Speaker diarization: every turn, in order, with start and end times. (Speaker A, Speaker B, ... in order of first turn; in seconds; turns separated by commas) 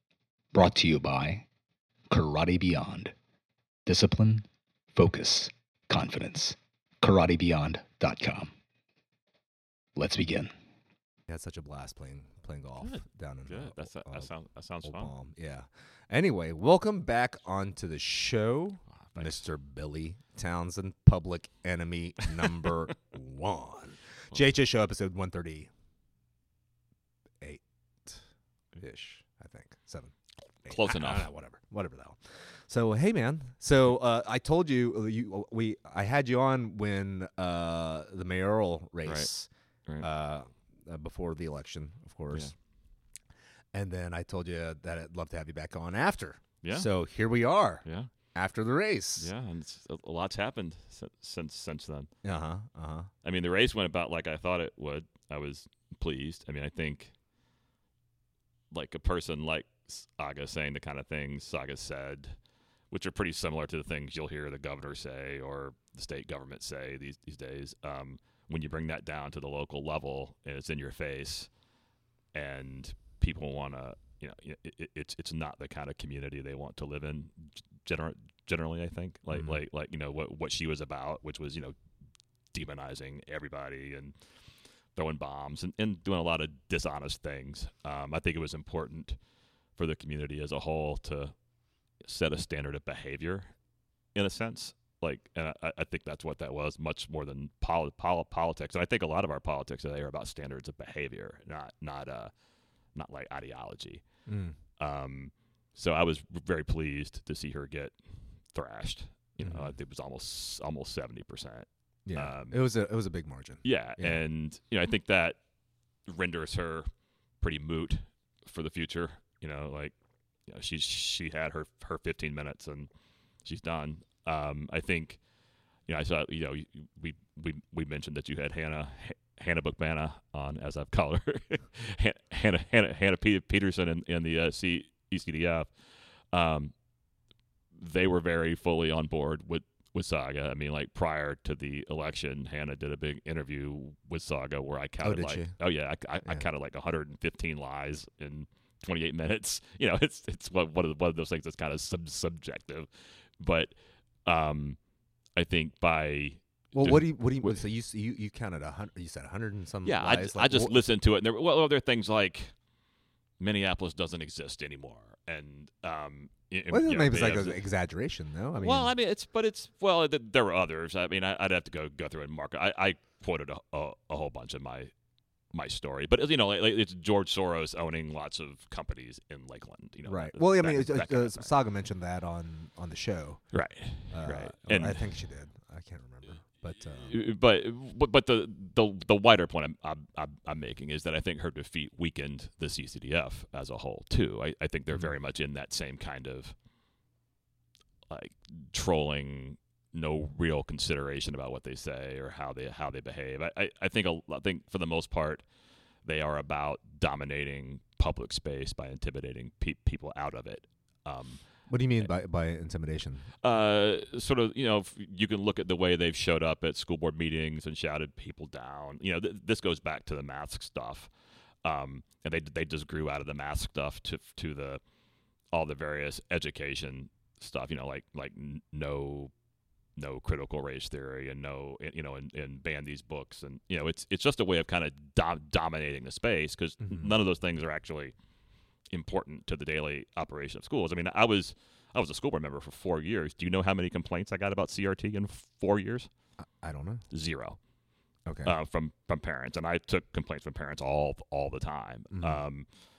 Speaker A: 0.5-1.5, Speaker A: 2.1-3.1, Speaker A: 3.8-8.5, Speaker A: 9.9-10.5, Speaker B: 11.3-14.3, Speaker C: 12.8-15.1, Speaker B: 14.8-25.7, Speaker C: 19.0-19.4, Speaker B: 27.4-28.2, Speaker B: 28.8-42.5, Speaker C: 30.7-31.3, Speaker C: 39.0-39.3, Speaker B: 43.7-49.3, Speaker C: 46.6-46.9, Speaker C: 47.8-48.1, Speaker C: 49.2-52.1, Speaker B: 52.2-53.1, Speaker C: 53.2-57.1, Speaker C: 58.7-62.4, Speaker C: 62.9-71.5, Speaker C: 72.3-81.7, Speaker B: 79.3-79.6, Speaker C: 82.5-84.1, Speaker C: 84.9-89.2, Speaker C: 89.8-91.3, Speaker C: 92.0-93.5, Speaker C: 94.1-102.3, Speaker C: 102.9-104.0, Speaker B: 104.2-104.6, Speaker C: 104.8-112.6, Speaker B: 109.4-109.7, Speaker B: 112.0-114.2, Speaker C: 113.6-115.4, Speaker C: 116.0-122.9, Speaker C: 123.4-125.2, Speaker C: 125.8-135.7, Speaker C: 136.3-136.7, Speaker C: 137.8-154.8, Speaker B: 145.0-145.6, Speaker C: 155.3-157.5, Speaker B: 156.7-160.8, Speaker C: 159.8-162.5, Speaker C: 163.4-167.6, Speaker B: 166.7-168.9, Speaker C: 168.6-174.9, Speaker C: 175.5-181.5, Speaker B: 180.1-187.1, Speaker C: 183.5-185.1, Speaker C: 187.0-196.5, Speaker C: 198.1-205.4, Speaker C: 206.0-211.4, Speaker B: 211.7-213.3, Speaker C: 213.4-221.1, Speaker C: 221.6-224.8, Speaker C: 225.5-229.3, Speaker C: 229.9-238.1, Speaker B: 236.8-237.1, Speaker C: 238.9-246.1, Speaker B: 246.4-247.0, Speaker C: 247.1-247.6, Speaker B: 248.2-248.5, Speaker C: 248.4-252.7, Speaker B: 252.1-252.4